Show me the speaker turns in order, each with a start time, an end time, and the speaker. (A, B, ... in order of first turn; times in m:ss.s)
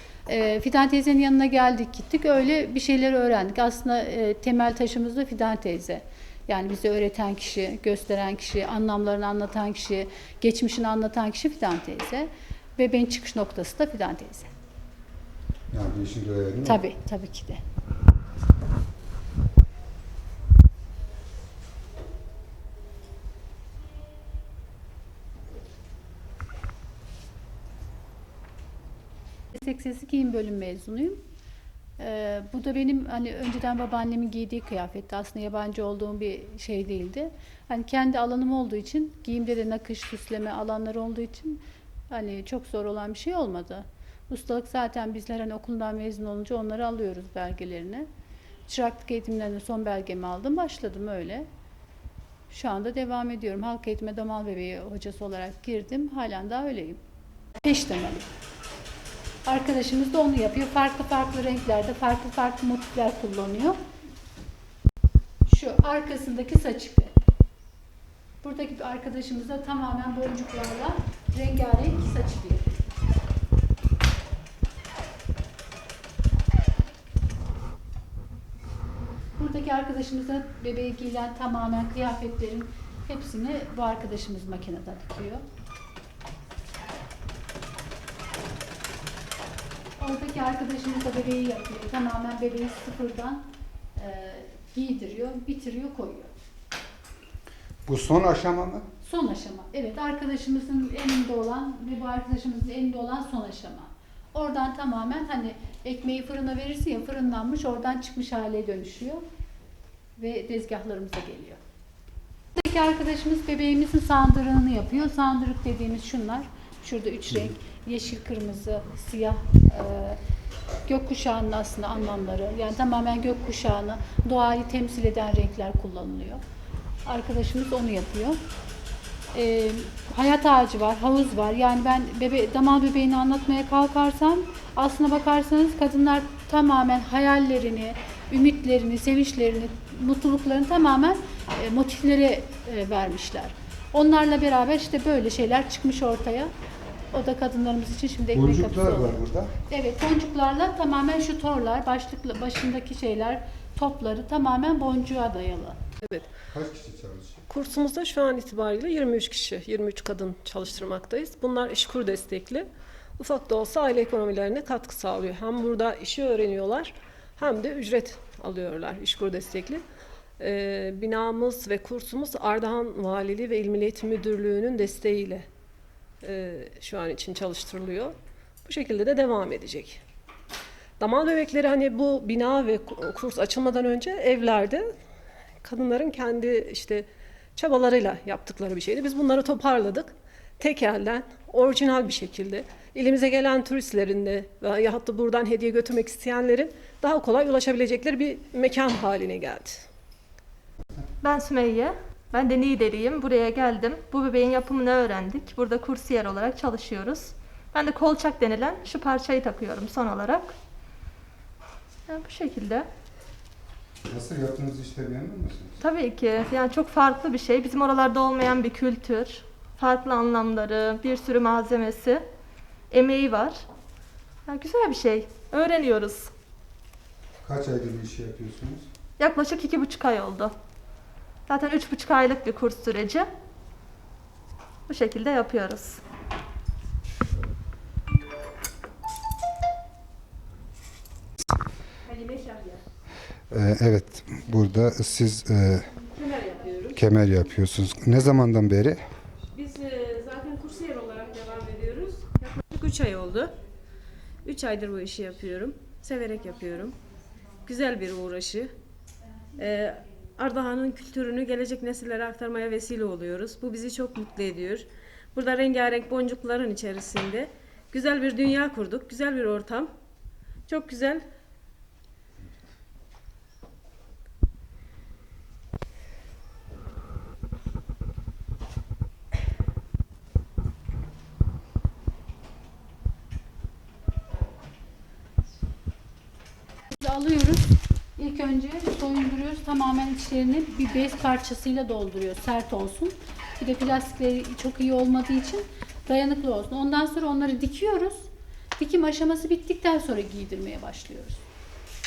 0:00.3-0:14.5 A
0:15.7-0:16.8 B
0:16.6-0:17.6 A
0:29.5-0:31.2 A
0:32.0-0:48.1 A
0:48.7-0:51.4 A
0:52.5-0:57.0 A
0:57.6-0:58.3 A
0:59.4-1:03.8 A
1:05.4-1:07.1 A
1:08.4-1:12.8 A
1:19.4-1:25.4 A
1:30.0-1:33.4 A
1:34.0-1:36.3 A
1:37.8-1:38.8 B
1:39.0-1:49.2 A
1:50.2-1:51.6 A
1:52.6-2:00.2 A
2:00.8-2:06.4 A
2:07.0-2:08.4 A
2:09.3-2:26.5 A
2:27.1-2:35.8 A
2:28.3-2:29.5 B
2:36.5-2:37.4 B
2:37.5-2:42.7 C
2:43.2-2:49.8 C
2:50.4-2:55.4 C
2:56.2-3:00.0 C
3:01.0-3:04.9 C
3:05.6-3:19.8 C
3:21.2-3:30.5 D
3:32.1-3:32.9 D
3:34.1-3:35.8 B
3:35.8-3:42.2 D
3:42.9-3:43.6 D
3:44.4-3:46.3 D
3:47.4-3:48.8 B
3:49.2-3:50.5 D
3:51.5-3:53.3 D
3:54.9-3:56.0 D
4:02.0-4:02.8 E
4:03.5-4:05.9 B
4:06.1-4:07.0 E
4:06.9-4:09.0 B
4:09.5-4:13.5 E
4:14.4-4:17.0 E
4:17.6-4:18.7 E
4:19.6-4:29.9 E
4:30.7-4:31.2 E
4:47.0-5:01.4 A